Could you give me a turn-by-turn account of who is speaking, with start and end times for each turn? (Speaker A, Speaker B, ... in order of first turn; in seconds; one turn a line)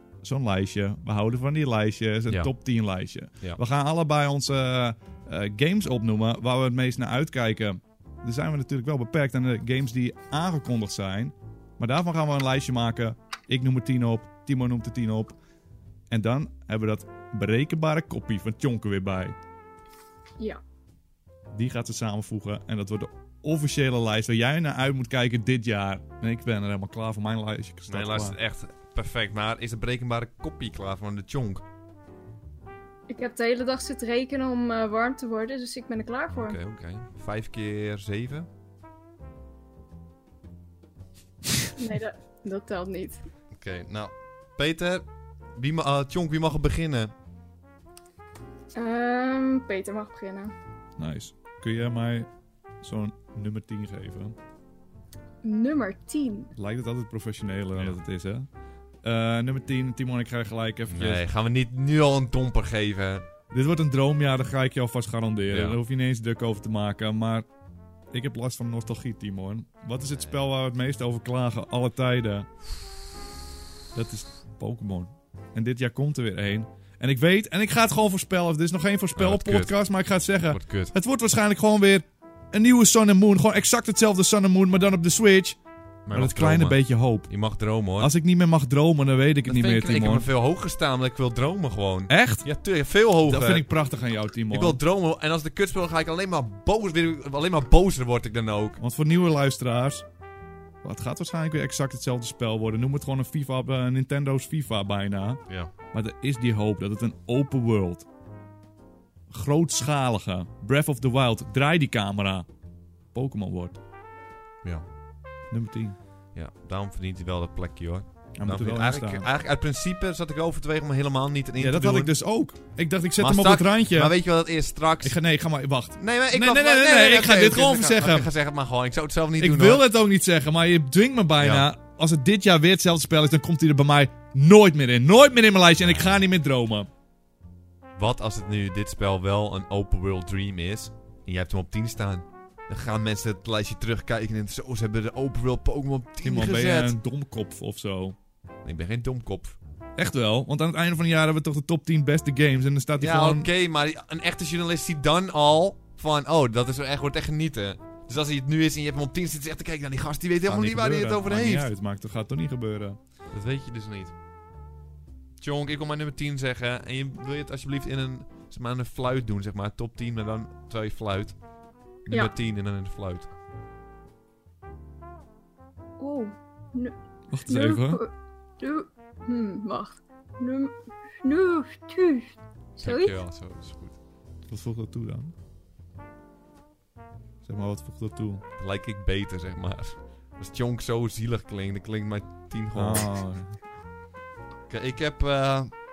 Speaker A: 0.2-15.4
Speaker A: 16.1-19.4
Speaker A: 21.5-28.4
Speaker B: 27.9-31.6
Speaker C: 33.1-36.6
Speaker B: 36.3-38.5
Speaker C: 41.8-43.2
Speaker B: 43.5-47.1
Speaker C: 48.8-50.5
Speaker A: 51.0-52.3
Speaker A: 52.8-54.4
Speaker C: 55.4-56.5
Speaker A: 56.6-58.5
Speaker A: 59.0-61.2
Speaker B: 60.9-63.2
Speaker A: 63.5-67.5
Speaker B: 65.5-65.8
Speaker A: 68.1-72.5
Speaker A: 73.9-85.6
Speaker B: 79.2-79.7
Speaker B: 80.5-80.9
Speaker B: 86.1-88.1
Speaker A: 86.1-87.3
Speaker A: 88.0-90.3
Speaker B: 89.5-93.7
Speaker A: 92.1-92.5
Speaker A: 93.3-94.8
Speaker B: 94.5-98.8
Speaker A: 98.8-100.0
Speaker A: 100.8-108.1
Speaker A: 109.3-112.5
Speaker A: 113.1-113.8
Speaker A: 115.5-116.0
Speaker B: 116.3-122.1
Speaker A: 118.4-119.3
Speaker A: 121.6-124.2
Speaker B: 123.2-125.2
Speaker A: 125.0-128.3
Speaker B: 126.0-129.8
Speaker A: 129.4-136.9
Speaker B: 131.4-131.7
Speaker B: 138.0-146.9
Speaker A: 146.2-148.2
Speaker B: 148.6-149.6
Speaker A: 150.0-153.5
Speaker B: 153.0-161.7
Speaker A: 160.5-163.0
Speaker B: 163.3-164.1
Speaker B: 165.4-171.4
Speaker B: 172.1-173.3
Speaker C: 176.0-176.9
Speaker A: 177.3-178.0
Speaker C: 177.5-183.2
Speaker B: 182.8-184.0
Speaker A: 184.5-185.3
Speaker A: 187.4-188.4
Speaker B: 188.6-193.1
Speaker A: 192.7-193.6
Speaker B: 194.7-195.8